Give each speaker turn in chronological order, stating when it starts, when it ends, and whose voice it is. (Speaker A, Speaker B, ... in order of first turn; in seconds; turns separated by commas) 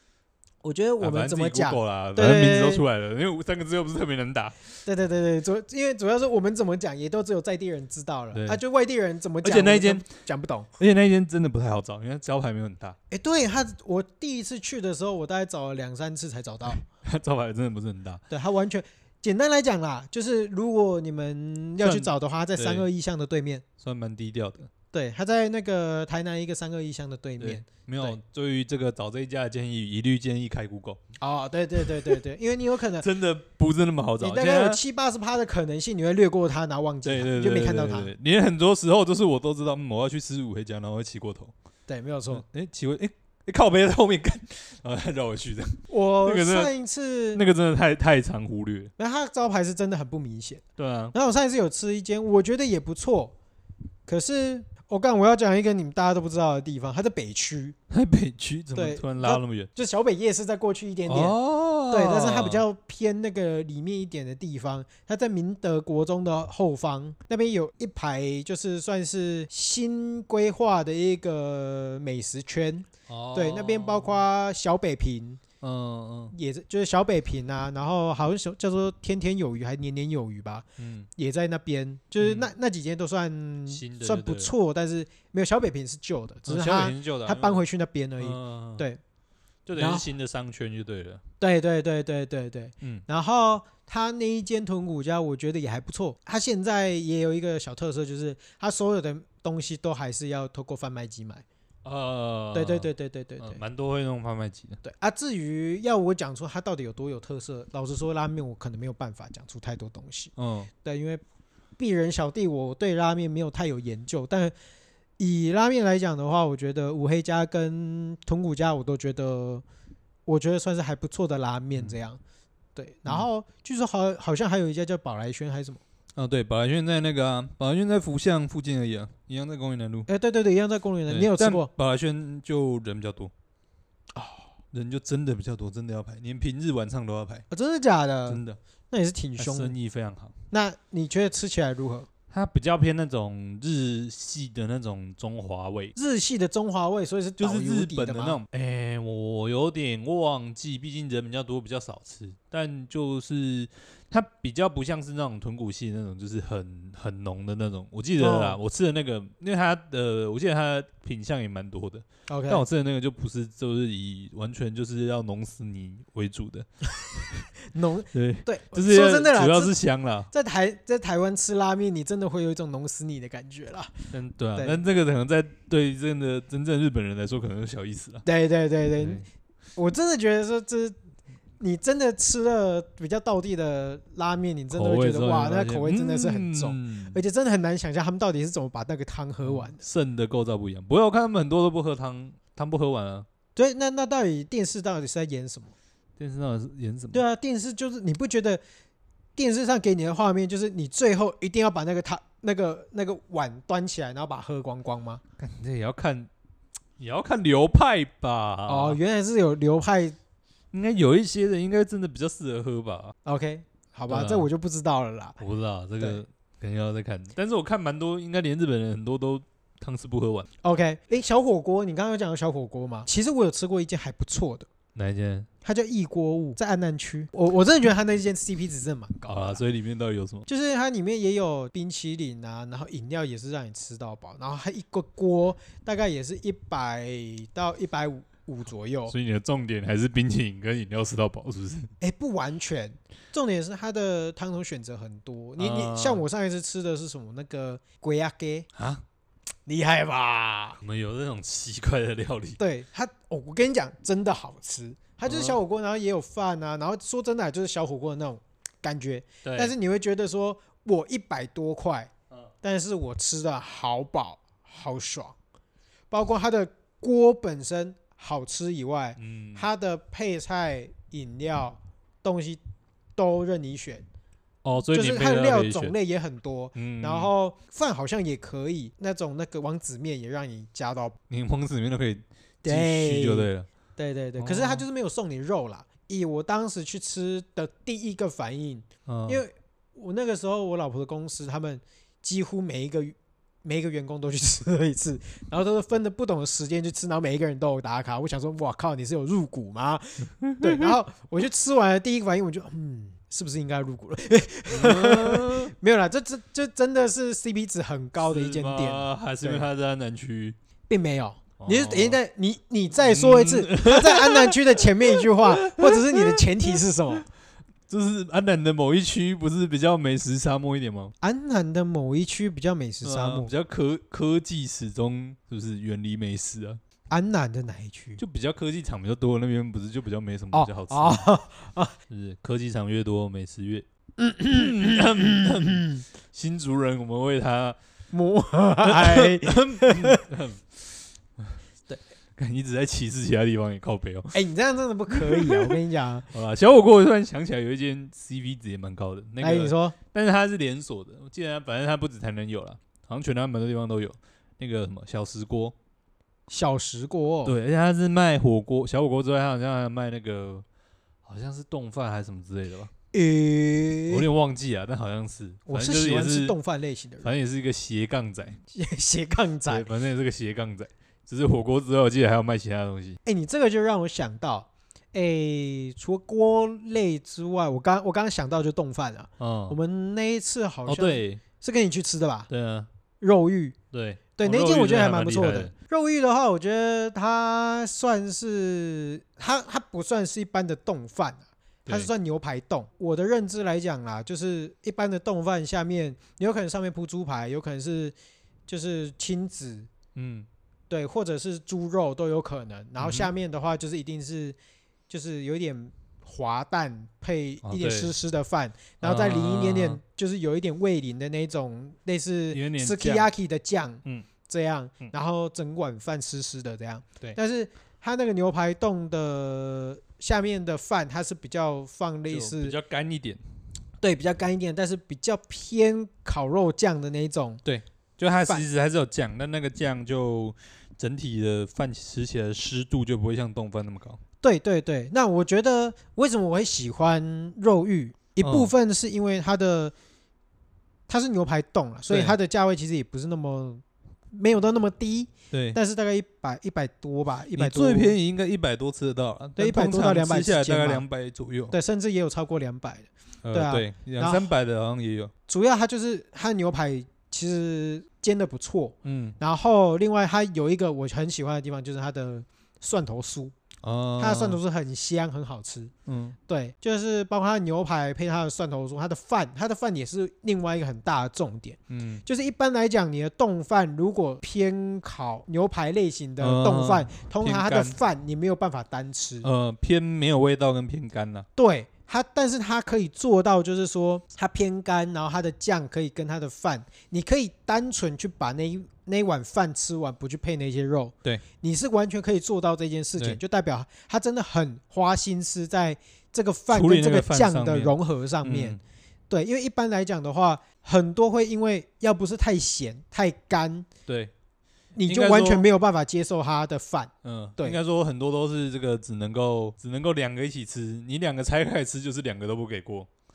Speaker A: 0.6-2.8, Speaker B: 1.0-4.6, Speaker A: 4.8-10.7, Speaker B: 8.3-8.6, Speaker B: 9.4-10.1, Speaker B: 10.8-13.0, Speaker A: 13.1-16.8, Speaker B: 16.7-18.2, Speaker A: 18.3-23.6, Speaker B: 21.8-22.9, Speaker B: 23.8-24.7, Speaker A: 24.9-28.2, Speaker B: 27.4-31.0, Speaker A: 31.2-33.0, Speaker B: 31.8-32.1, Speaker B: 33.0-34.8, Speaker A: 34.2-38.1, Speaker B: 37.0-41.5, Speaker A: 41.9-42.4, Speaker B: 42.3-46.7, Speaker A: 45.9-47.4, Speaker B: 47.3-48.9, Speaker A: 49.0-50.6, Speaker B: 50.8-51.1, Speaker A: 51.1-53.3, Speaker A: 54.1-57.8, Speaker B: 57.9-59.7, Speaker A: 58.7-61.3, Speaker B: 61.1-62.6, Speaker A: 61.9-75.4, Speaker B: 73.1-74.2, Speaker B: 75.6-76.3, Speaker A: 76.3-80.7, Speaker B: 80.8-81.1, Speaker A: 81.2-89.0, Speaker B: 82.2-82.5, Speaker B: 83.7-84.5, Speaker B: 86.5-87.6, Speaker B: 88.2-88.8, Speaker B: 89.7-91.2, Speaker A: 89.8-90.0, Speaker A: 91.4-101.4, Speaker B: 101.8-102.9, Speaker A: 102.5-103.6, Speaker B: 103.4-104.8, Speaker A: 104.8-111.2, Speaker B: 110.4-110.7, Speaker A: 111.8-114.5, Speaker A: 115.2-119.6, Speaker A: 120.2-122.2, Speaker A: 122.8-125.8, Speaker B: 126.1-130.1, Speaker A: 130.1-131.7, Speaker B: 131.1-133.3, Speaker A: 134.1-134.5, Speaker B: 134.7-137.4, Speaker A: 137.5-139.7, Speaker B: 138.3-138.6, Speaker B: 139.4-140.3, Speaker A: 140.5-142.1, Speaker B: 142.3-145.9, Speaker A: 145.9-148.4, Speaker B: 147.4-167.4, Speaker A: 158.2-158.6, Speaker A: 162.3-162.6, Speaker A: 167.7-169.7, Speaker B: 168.1-170.3, Speaker A: 170.3-173.9, Speaker B: 174.1-178.2, Speaker A: 178.2-179.2, Speaker B: 179.0-179.2, Speaker A: 179.8-180.9, Speaker A: 181.6-189.8, Speaker B: 184.7-187.2, Speaker B: 189.4-193.3, Speaker A: 193.6-195.7, Speaker B: 196.2-197.2, Speaker A: 197.1-198.6, Speaker A: 199.3-205.2, Speaker B: 205.4-206.3, Speaker B: 207.0-209.0, Speaker A: 208.7-210.2, Speaker B: 210.7-213.1, Speaker A: 213.2-215.4, Speaker B: 214.1-214.5, Speaker B: 215.4-220.5, Speaker A: 220.6-224.7, Speaker B: 224.9-225.5, Speaker A: 225.6-229.6, Speaker B: 229.3-230.5, Speaker A: 230.5-239.1, Speaker B: 239.1-241.9, Speaker A: 242.0-248.7, Speaker B: 245.6-246.2, Speaker B: 248.7-249.0, Speaker A: 249.7-250.8, Speaker B: 250.8-252.6, Speaker A: 252.6-262.1, Speaker B: 255.3-255.6, Speaker B: 259.4-259.7, Speaker A: 262.6-265.3, Speaker A: 266.1-272.6, Speaker B: 269.2-269.6, Speaker A: 273.2-274.0, Speaker B: 274.6-275.9, Speaker A: 274.9-281.2, Speaker B: 276.7-277.3, Speaker B: 281.3-283.7, Speaker A: 282.6-309.6, Speaker B: 284.4-284.8, Speaker B: 289.1-289.4, Speaker B: 300.4-300.9, Speaker B: 304.7-305.7, Speaker B: 308.2-310.6, Speaker A: 310.9-317.2, Speaker B: 311.6-312.2, Speaker B: 313.0-316.7, Speaker B: 317.9-321.1, Speaker A: 321.2-323.5, Speaker B: 323.0-326.8, Speaker A: 327.1-328.2, Speaker B: 328.2-331.2, Speaker A: 330.5-331.9, Speaker B: 332.1-333.9, Speaker A: 334.2-336.0, Speaker B: 334.5-337.8, Speaker A: 338.1-340.2, Speaker B: 338.8-341.6, Speaker B: 342.4-344.3, Speaker A: 344.3-346.3, Speaker B: 345.1-345.8, Speaker B: 346.3-355.7, Speaker A: 349.4-349.9, Speaker A: 356.5-357.6, Speaker B: 357.4-360.6, Speaker B: 361.2-362.9, Speaker A: 363.1-364.3, Speaker B: 364.1-366.6, Speaker A: 365.7-367.3, Speaker B: 367.2-368.6, Speaker A: 368.7-369.9, Speaker B: 369.7-373.2, Speaker A: 373.2-382.5, Speaker B: 379.4-379.8, Speaker B: 380.9-381.4, Speaker B: 382.5-382.9, Speaker A: 383.2-383.8, Speaker B: 383.9-385.7, Speaker A: 384.4-398.1, Speaker A: 398.7-399.9, Speaker B: 400.1-400.5, Speaker A: 400.9-404.6, Speaker B: 403.0-403.3, Speaker A: 405.1-422.7, Speaker B: 407.6-408.1, Speaker B: 409.0-410.0, Speaker B: 412.5-413.3, Speaker B: 422.3-423.4, Speaker A: 424.0-427.6, Speaker B: 427.6-434.2, Speaker A: 434.4-439.9, Speaker B: 438.4-438.7, Speaker A: 441.1-448.1, Speaker B: 442.1-442.4, Speaker B: 445.5-445.8, Speaker B: 447.5-451.7, Speaker A: 449.6-451.0, Speaker A: 451.7-454.5, Speaker B: 453.4-455.3, Speaker A: 455.5-463.5, Speaker B: 459.0-459.4, Speaker B: 463.8-464.6, Speaker A: 464.2-465.9, Speaker B: 466.1-466.4, Speaker A: 466.5-479.5, Speaker B: 471.9-472.2, Speaker B: 476.4-478.0, Speaker B: 479.4-481.5, Speaker A: 481.6-498.8, Speaker B: 496.7-498.8, Speaker A: 499.3-503.9, Speaker B: 504.1-504.3, Speaker A: 504.9-507.8, Speaker B: 505.1-505.7, Speaker B: 507.2-513.1